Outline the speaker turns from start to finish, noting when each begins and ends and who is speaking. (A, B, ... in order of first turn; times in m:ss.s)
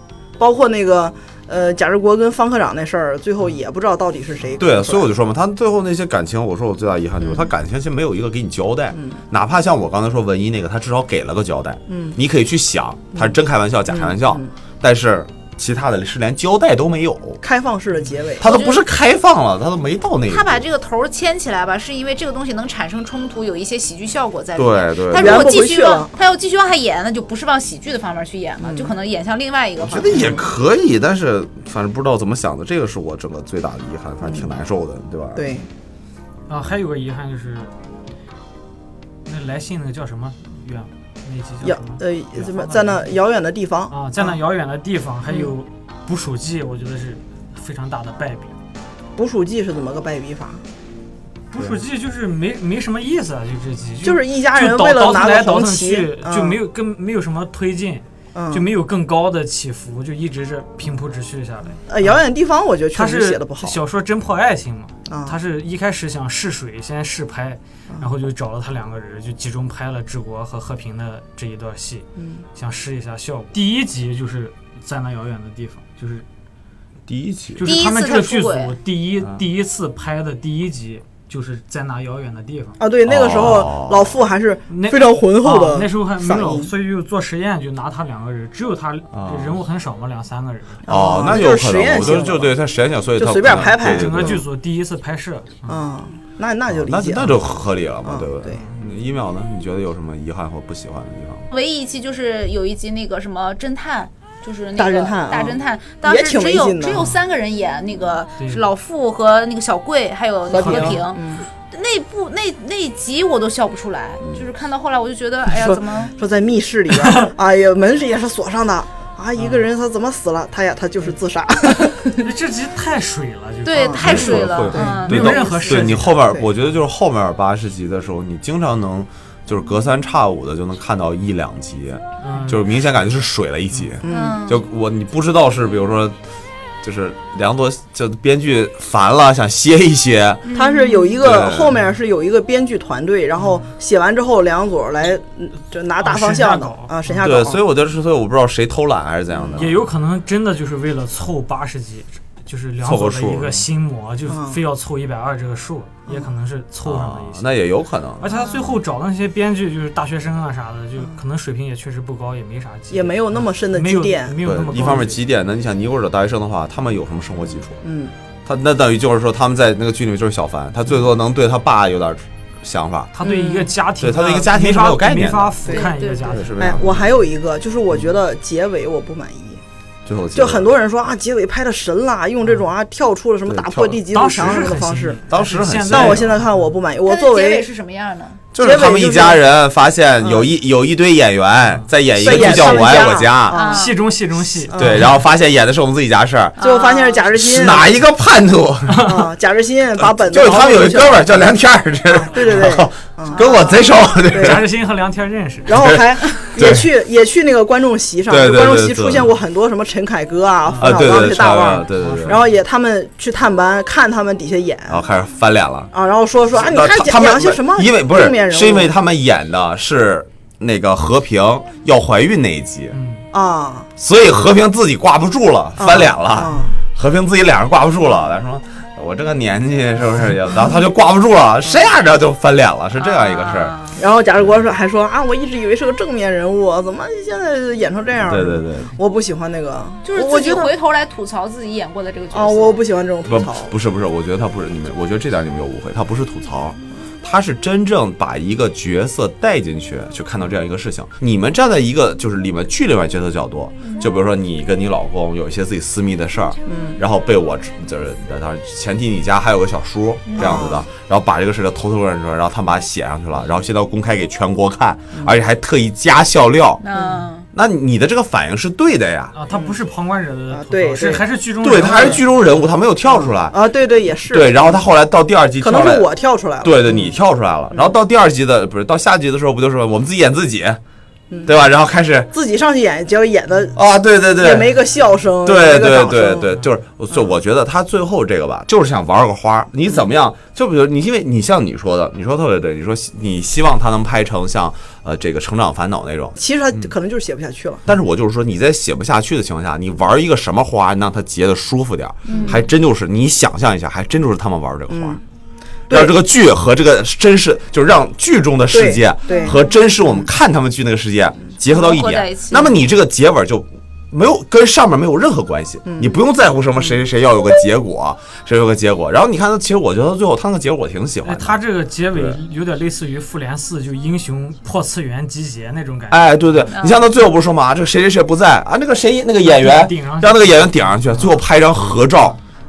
0:00.4-0:05.1 A
0:04.6-0:17.4 B
0:08.9-0:09.2 A
0:11.9-0:12.2 A
0:13.9-0:14.5 A
0:17.4-0:18.4 A
0:18.4-0:20.6 B
0:18.4-0:18.8 C
0:20.3-0:30.2 C
0:24.6-0:25.5 B
0:25.1-0:26.1 A
0:28.6-0:28.9 A
0:29.8-0:35.4 B
0:30.1-0:30.4 A
0:34.2-0:34.5 A
0:35.4-0:35.7 A
0:36.5-0:37.7 D
0:39.2-0:43.2 D
0:41.6-0:44.3 A
0:43.9-0:48.5 D
0:49.2-0:50.6 A
0:51.5-1:02.2 D
0:54.0-0:56.6 A
0:58.3-0:58.7 A
1:01.9-1:03.8 A
1:02.9-1:12.0 D
1:05.1-1:05.4 A
1:12.2-1:12.4 A
1:12.6-1:16.2 D
1:17.1-1:17.7 B
1:17.6-1:22.8 D
1:17.6-1:18.7 C
1:22.8-1:26.7 A
1:23.0-1:24.2 B
1:24.7-1:30.8 D
1:29.1-1:29.6 B
1:30.8-1:32.5 A
1:30.8-1:34.4 B
1:33.2-1:34.4 A
1:33.5-1:35.8 D
1:35.7-1:37.4 A
1:36.7-1:41.4 B
1:38.0-1:38.6 A
1:41.5-1:51.2 C
1:44.8-1:47.1 A
1:48.4-1:48.6 D
1:50.5-1:51.4 A
1:50.5-1:51.0 D
1:51.7-1:56.1 C
1:55.5-2:02.0 A
1:59.4-1:59.6 D
2:02.2-2:06.3 D
2:03.6-2:06.0 C
2:03.7-2:05.0 A
2:04.0-2:16.2 B
2:12.2-2:12.6 D
2:14.0-2:14.4 A
2:14.1-2:14.6 C
2:16.8-2:20.5 B
2:20.4-2:21.2 C
2:20.5-2:27.6 A
2:21.2-2:21.7 B
2:23.4-2:23.7 D
2:26.0-2:27.2 D
2:27.2-2:29.8 B
2:29.3-2:29.6 A
2:29.6-2:37.5 D
2:32.8-2:33.7 B
2:34.3-2:34.6 A
2:36.8-2:38.3 B
2:38.2-2:45.2 D
2:42.9-2:44.9 A
2:44.4-2:47.8 B
2:47.8-2:48.1 A
2:48.4-2:53.1 B
2:53.1-2:56.9 D
2:53.2-2:53.7 A
2:54.0-2:55.6 B
2:55.7-2:56.4 C
2:56.3-2:57.0 B
2:56.6-2:59.6 A
2:57.9-2:58.2 B
3:00.0-3:00.8 B
3:00.3-3:05.2 A
3:03.4-3:04.7 B
3:04.1-3:06.7 D
3:05.3-3:06.3 B
3:05.9-3:07.7 A
3:07.0-3:08.4 C
3:08.5-3:13.6 B
3:08.6-3:09.4 A
3:10.2-3:10.5 A
3:11.7-3:12.7 D
3:12.1-3:13.8 A
3:13.5-3:14.0 C
3:13.7-3:15.0 D
3:14.7-3:15.1 A
3:14.7-3:16.6 B
3:16.6-3:17.2 C
3:16.6-3:17.9 A
3:17.3-3:19.1 B
3:18.9-3:19.2 D
3:19.0-3:21.4 A
3:20.0-3:24.7 B
3:22.2-3:23.8 A
3:23.4-3:23.8 C
3:24.3-3:24.6 A
3:24.3-3:25.8 D
3:25.7-3:35.0 A
3:25.7-3:26.9 B
3:28.3-3:29.3 B
3:30.6-3:31.0 D
3:30.8-3:32.4 B
3:32.0-3:32.6 D
3:34.9-3:35.9 B
3:35.9-3:38.9 A
3:36.5-3:43.0 B
3:42.9-3:43.2 D
3:43.3-3:43.9 A
3:44.0-3:53.7 B
3:45.8-3:46.7 A
3:53.0-3:54.0 C
3:54.0-4:00.7 A
3:58.2-3:58.9 B
4:00.0-4:02.8 C
4:02.3-4:03.7 A
4:03.3-4:26.8 B
4:16.7-4:17.0 A
4:20.2-4:20.6 C
4:20.4-4:20.8 A
4:26.8-4:27.5 C
4:26.9-4:27.2 A
4:27.5-4:29.4 B
4:29.3-4:32.2 D
4:29.5-4:29.8 A
4:30.5-4:32.2 A
4:31.6-4:33.6 B
4:33.0-4:34.8 A
4:34.3-4:36.1 B
4:35.6-4:37.1 A
4:36.6-4:40.8 B
4:41.3-4:41.6 A
4:41.4-4:42.3 B
4:42.3-4:43.8 A
4:43.7-4:44.8 B
4:44.3-4:46.5 A
4:45.4-4:56.9 B
4:56.4-4:57.8 A
4:57.8-5:05.2 B
5:02.3-5:02.6 C
5:02.3-5:02.6 A
5:04.9-5:05.2 A
5:05.9-5:06.1 A
5:05.9-5:21.6 B
5:08.7-5:10.3 A
5:09.3-5:09.8 C
5:11.7-5:12.8 C
5:15.8-5:16.2 A
5:21.2-5:26.7 D
5:22.1-5:22.4 B
5:26.1-5:32.4 B
5:26.7-5:27.1 C
5:29.4-5:31.0 D